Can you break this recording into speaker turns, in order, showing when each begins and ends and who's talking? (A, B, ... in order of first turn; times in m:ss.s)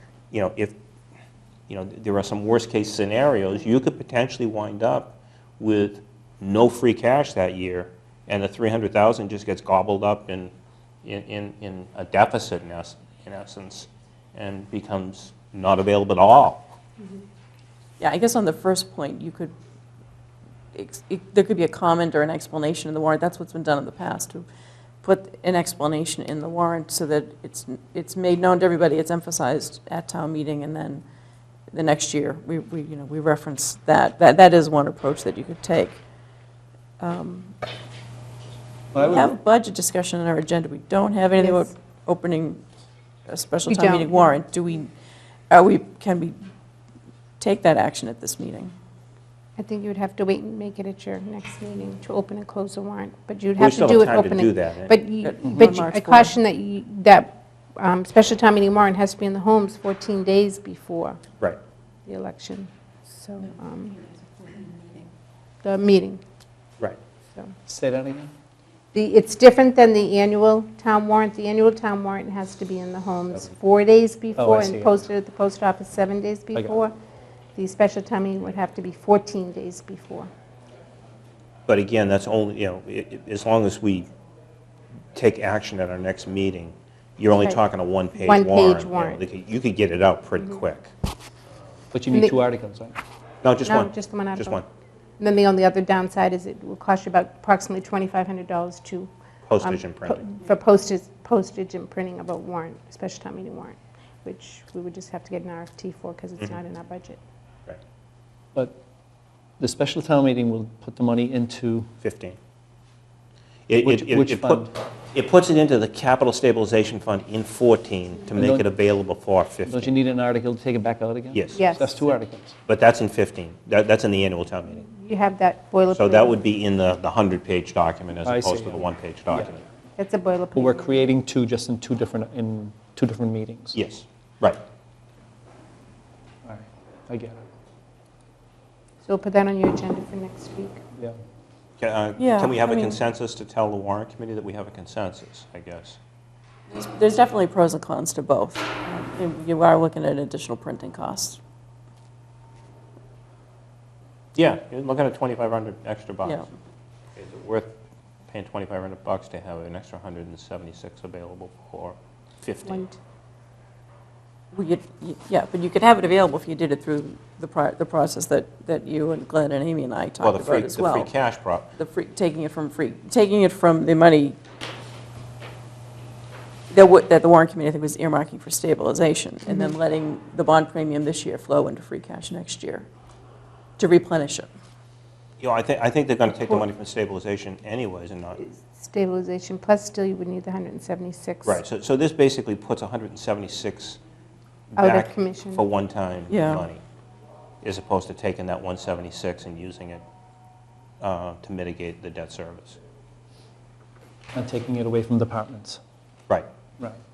0:00.3-0:00.8 A
0:01.7-0:10.5 A
0:11.0-0:16.7 A
0:18.0-0:19.6 B
0:20.7-0:24.5 B
0:25.0-0:31.0 B
0:31.7-0:36.0 B
0:37.0-0:37.6 B
0:38.9-0:39.4 C
0:39.0-0:42.6 B
0:41.4-0:41.7 D
0:43.3-0:44.9 B
0:43.7-0:44.4 D
0:45.5-0:46.4 B
0:47.4-0:48.7 B
0:49.6-1:01.2 D
0:53.6-0:55.0 A
0:55.2-0:56.3 B
0:55.4-0:55.7 C
1:02.1-1:04.1 D
1:05.6-1:06.2 D
1:07.7-1:08.3 C
1:08.9-1:16.9 D
1:14.4-1:15.0 C
1:17.6-1:20.3 D
1:21.7-1:24.1 A
1:25.2-1:30.9 A
1:28.2-1:29.2 D
1:31.9-1:33.0 C
1:32.1-1:32.4 D
1:33.4-1:34.6 A
1:33.6-1:34.6 D
1:35.2-1:39.1 D
1:39.5-1:40.3 A
1:39.6-1:47.2 D
1:49.6-1:51.9 C
1:52.0-1:52.4 A
1:53.7-1:59.9 A
1:53.8-1:54.7 C
1:58.3-1:58.7 C
1:59.7-2:02.6 C
2:01.3-2:02.2 A
2:01.6-2:01.9 D
2:02.7-2:04.9 A
2:04.8-2:06.4 D
2:05.9-2:09.6 A
2:08.2-2:09.5 C
2:10.0-2:11.1 D
2:10.5-2:13.8 C
2:13.7-2:14.6 A
2:16.4-2:17.5 C
2:19.0-2:20.8 D
2:21.8-2:26.0 A
2:22.2-2:23.0 B
2:26.7-2:31.4 B
2:34.4-2:36.5 A
2:37.2-2:37.8 A
2:38.3-2:42.8 A
2:42.6-2:43.0 D
2:44.5-2:51.1 B
2:50.2-2:51.7 A
2:51.8-2:54.4 B
2:56.7-3:02.9 B
2:59.5-2:59.8 D
3:03.8-3:04.5 B
3:05.4-3:08.4 A
3:08.4-3:11.6 D
3:11.4-3:14.0 A
3:14.7-3:16.8 A
3:14.8-3:15.6 D
3:16.3-3:16.7 B
3:17.6-3:20.0 A
3:21.0-3:22.8 A
3:24.3-3:25.8 C